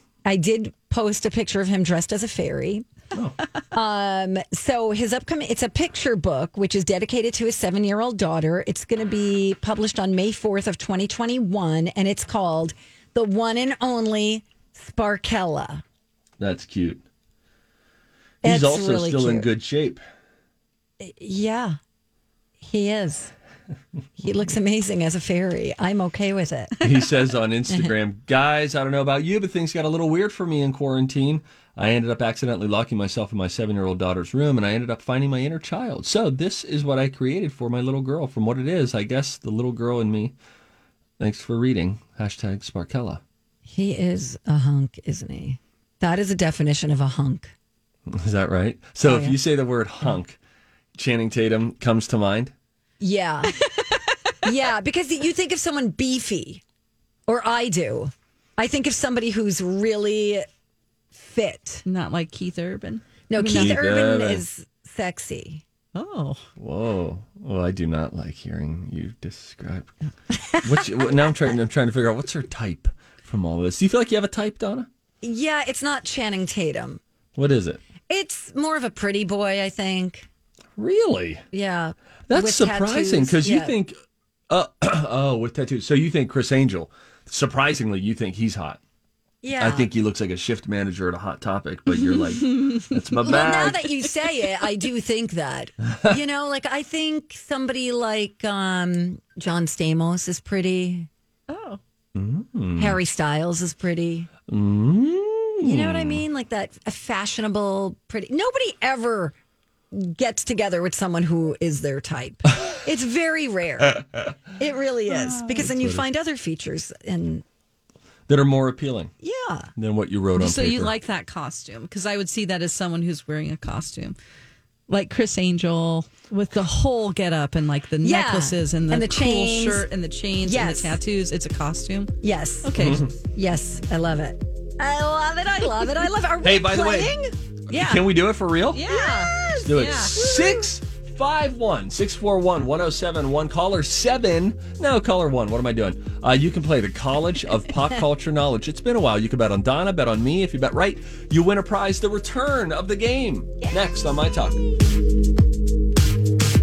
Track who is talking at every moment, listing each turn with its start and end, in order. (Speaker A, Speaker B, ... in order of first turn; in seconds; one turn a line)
Speaker A: 0.2-2.9
Speaker A: 3.7-15.8
Speaker B: 16.4-17.0
Speaker A: 18.4-19.5
Speaker B: 18.4-20.0
Speaker A: 21.0-21.8
Speaker A: 22.6-23.3
Speaker A: 24.2-26.7
Speaker B: 26.8-40.3
Speaker B: 41.2-43.2
Speaker A: 43.6-47.5
Speaker B: 48.1-50.4
Speaker A: 49.0-49.4
Speaker B: 50.9-52.5
Speaker A: 53.0-53.5
Speaker A: 54.4-56.6
Speaker A: 57.3-60.5
Speaker A: 61.1-61.8
Speaker C: 61.8-63.7
Speaker A: 63.3-65.6
Speaker B: 63.4-64.4
Speaker C: 65.9-66.4
Speaker B: 66.6-69.9
Speaker A: 70.3-71.3
Speaker B: 70.6-74.9
Speaker A: 75.2-77.0
Speaker B: 77.3-77.8
Speaker A: 78.1-80.3
Speaker B: 80.8-81.4
Speaker A: 81.5-83.8
Speaker B: 82.3-83.9
Speaker B: 84.5-88.8
Speaker A: 89.4-89.9
Speaker B: 89.6-93.9
Speaker C: 92.1-93.0
Speaker A: 93.2-101.1
Speaker C: 101.5-101.8
Speaker B: 102.1-103.0
Speaker A: 102.8-104.3
Speaker B: 104.5-106.2
Speaker A: 105.6-109.3
Speaker A: 109.9-114.0
Speaker A: 114.5-117.4
Speaker B: 115.5-116.0
Speaker B: 118.3-119.1
Speaker A: 119.2-119.7
Speaker B: 119.8-120.9
Speaker C: 120.4-124.2
Speaker C: 124.9-133.0
Speaker A: 128.0-129.8
Speaker A: 130.4-131.0
Speaker A: 132.2-137.3
Speaker B: 132.8-133.1
Speaker B: 136.4-137.2
Speaker B: 137.7-138.8
Speaker C: 137.7-138.0
Speaker C: 138.7-140.2
Speaker A: 138.8-140.7
Speaker B: 139.6-154.6